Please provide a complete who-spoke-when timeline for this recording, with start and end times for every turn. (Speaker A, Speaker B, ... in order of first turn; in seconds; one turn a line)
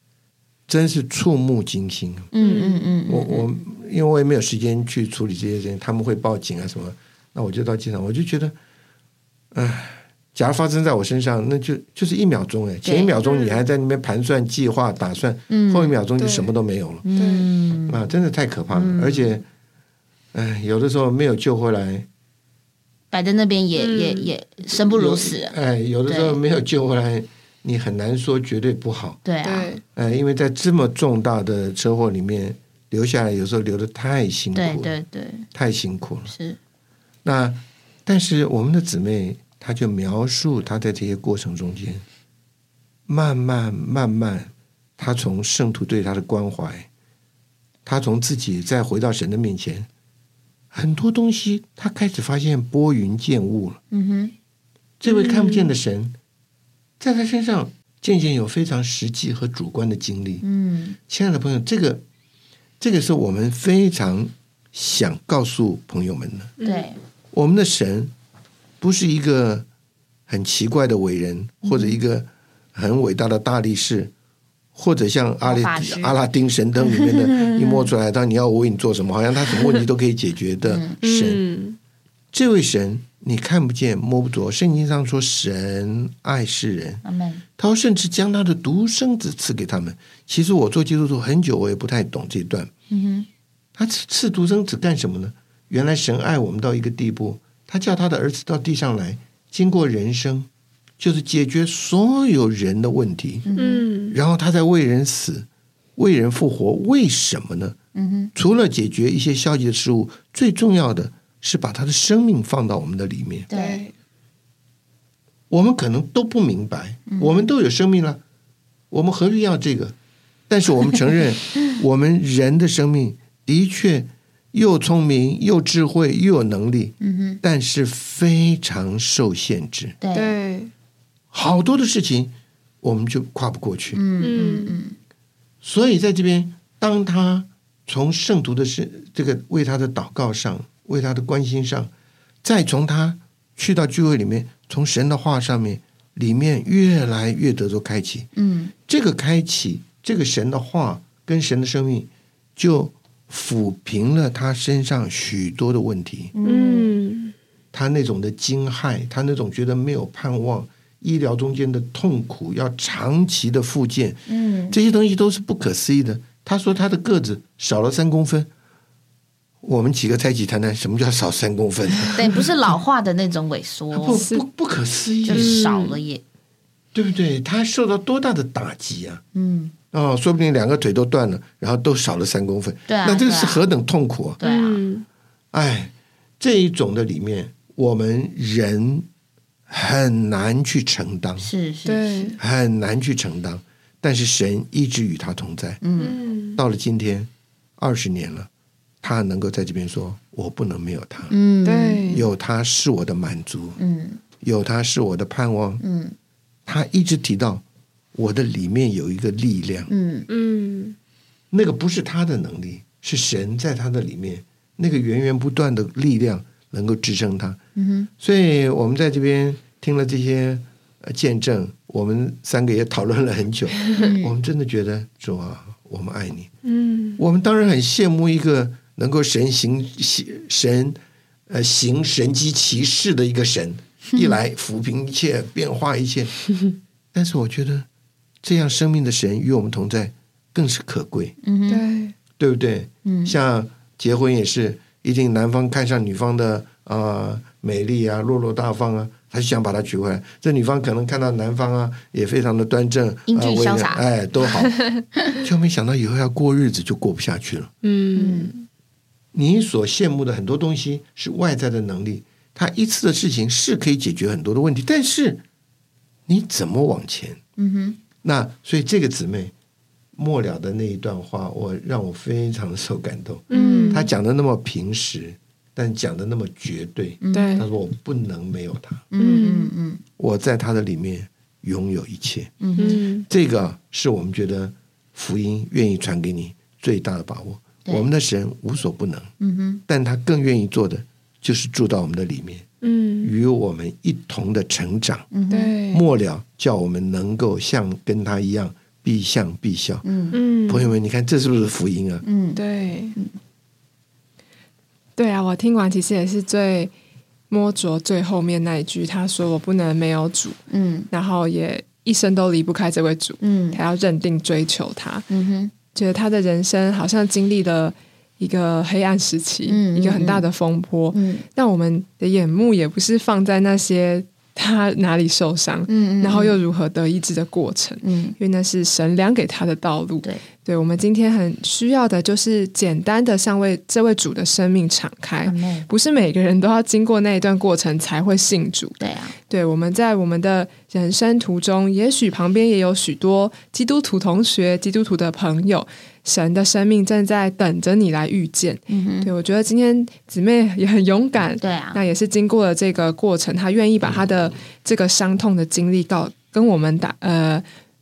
Speaker A: 0.7-2.3
Speaker B: 2.3-3.5
Speaker C: 2.4-2.9
Speaker A: 3.1-8.5
Speaker A: 9.5-17.1
Speaker B: 12.8-13.2
Speaker C: 13.2-13.6
Speaker B: 15.5-16.0
Speaker C: 16.2-16.5
Speaker B: 17.0-18.0
Speaker C: 17.1-17.5
Speaker A: 17.9-19.4
Speaker B: 18.7-19.4
Speaker A: 20.3-22.1
Speaker B: 23.1-25.5
Speaker C: 23.8-24.3
Speaker A: 24.8-29.2
Speaker B: 26.1-26.4
Speaker B: 29.2-29.7
Speaker C: 29.4-29.8
Speaker A: 29.9-34.9
Speaker B: 34.5-35.5
Speaker A: 35.5-36.3
Speaker B: 36.3-36.6
Speaker A: 37.2-42.0
Speaker A: 43.1-46.9
Speaker A: 47.8-49.9
Speaker A: 50.7-53.8
Speaker B: 53.9-54.3
Speaker A: 55.0-56.1
Speaker C: 55.0-55.7
Speaker A: 57.0-60.4
Speaker B: 60.4-61.0
Speaker A: 61.1-62.0
Speaker A: 62.8-66.5
Speaker C: 66.6-66.9
Speaker B: 66.6-67.0
Speaker A: 67.3-68.1
Speaker A: 68.8-69.7
Speaker A: 70.3-74.1
Speaker A: 74.7-81.4
Speaker B: 75.4-76.2
Speaker B: 76.8-77.9
Speaker B: 80.6-81.0
Speaker C: 81.0-81.8
Speaker A: 82.3-87.0
Speaker B: 87.0-87.4
Speaker A: 87.6-92.7
Speaker B: 92.9-93.3
Speaker A: 93.8-103.5
Speaker B: 103.5-103.9
Speaker C: 103.5-104.2
Speaker A: 104.1-107.8
Speaker B: 107.9-108.3
Speaker A: 108.3-113.5
Speaker B: 113.5-113.8
Speaker C: 113.5-113.9
Speaker A: 115.5-118.2
Speaker B: 117.1-117.4
Speaker A: 118.9-119.9
Speaker A: 120.5-129.9
Speaker B: 127.0-127.4
Speaker B: 130.0-130.4
Speaker C: 130.1-130.7
Speaker A: 131.3-134.0
Speaker B: 133.9-135.0
Speaker C: 134.2-134.8
Speaker A: 135.6-141.9
Speaker A: 142.4-148.3
Speaker B: 148.3-148.7
Speaker A: 148.9-156.3
Speaker B: 156.3-156.9
Speaker C: 156.4-157.3
Speaker A: 157.7-168.5
Speaker B: 164.3-164.8
Speaker A: 169.6-172.5
Speaker B: 172.1-174.2
Speaker A: 173.9-175.6
Speaker C: 174.1-174.4
Speaker B: 175.2-176.2
Speaker C: 175.3-176.0
Speaker A: 176.9-179.2
Speaker B: 179.3-179.7
Speaker A: 179.9-184.4
Speaker B: 182.9-183.6
Speaker B: 184.4-184.8
Speaker C: 184.4-185.1
Speaker A: 185.5-189.1
Speaker A: 189.7-191.5
Speaker B: 191.4-192.3
Speaker C: 191.8-192.4
Speaker A: 192.4-195.8
Speaker B: 195.8-196.2
Speaker C: 196.0-196.6
Speaker A: 196.6-198.5
Speaker A: 199.0-201.3
Speaker B: 201.3-202.1
Speaker C: 201.6-202.2
Speaker A: 202.1-203.8
Speaker B: 203.8-204.2
Speaker A: 204.4-205.8
Speaker B: 205.8-206.1
Speaker A: 206.7-207.6
Speaker A: 208.1-209.9
Speaker B: 209.9-210.3
Speaker C: 210.3-210.9
Speaker A: 211.5-217.6
Speaker B: 217.8-218.1
Speaker A: 218.2-226.5
Speaker B: 224.0-224.3
Speaker C: 226.6-227.2
Speaker A: 227.2-236.4
Speaker A: 237.1-237.9
Speaker A: 238.4-241.3
Speaker B: 241.4-241.8
Speaker C: 241.7-242.1
Speaker A: 242.4-254.8
Speaker B: 243.0-243.3
Speaker B: 253.3-254.0
Speaker A: 255.4-257.7
Speaker C: 257.8-258.6
Speaker B: 258.1-258.5
Speaker A: 259.3-265.4
Speaker A: 266.3-267.4
Speaker B: 267.6-268.0
Speaker A: 268.2-269.5
Speaker A: 270.1-279.1
Speaker C: 273.5-274.1
Speaker B: 273.5-274.1
Speaker B: 277.2-277.6
Speaker C: 277.3-277.6
Speaker B: 279.1-280.0
Speaker C: 279.2-279.7
Speaker A: 280.2-289.3
Speaker B: 282.6-283.0
Speaker C: 282.8-283.3
Speaker B: 289.4-289.8
Speaker A: 289.9-292.7
Speaker C: 292.8-293.3
Speaker A: 293.2-295.3
Speaker B: 295.3-295.8
Speaker C: 295.5-296.0
Speaker A: 295.9-300.0
Speaker B: 300.0-300.4
Speaker C: 300.3-300.9
Speaker A: 300.7-302.2
Speaker B: 302.2-302.6
Speaker C: 302.5-303.1
Speaker C: 305.1-306.9
Speaker C: 307.5-310.6
Speaker B: 310.7-311.1
Speaker C: 311.1-315.3
Speaker B: 313.4-313.8
Speaker B: 315.3-315.7
Speaker C: 315.9-357.6
Speaker B: 319.7-320.5
Speaker B: 321.1-321.4
Speaker B: 325.9-326.6
Speaker B: 328.0-328.4
Speaker B: 335.4-335.9
Speaker B: 339.0-339.4
Speaker B: 348.9-349.3
Speaker B: 351.6-352.0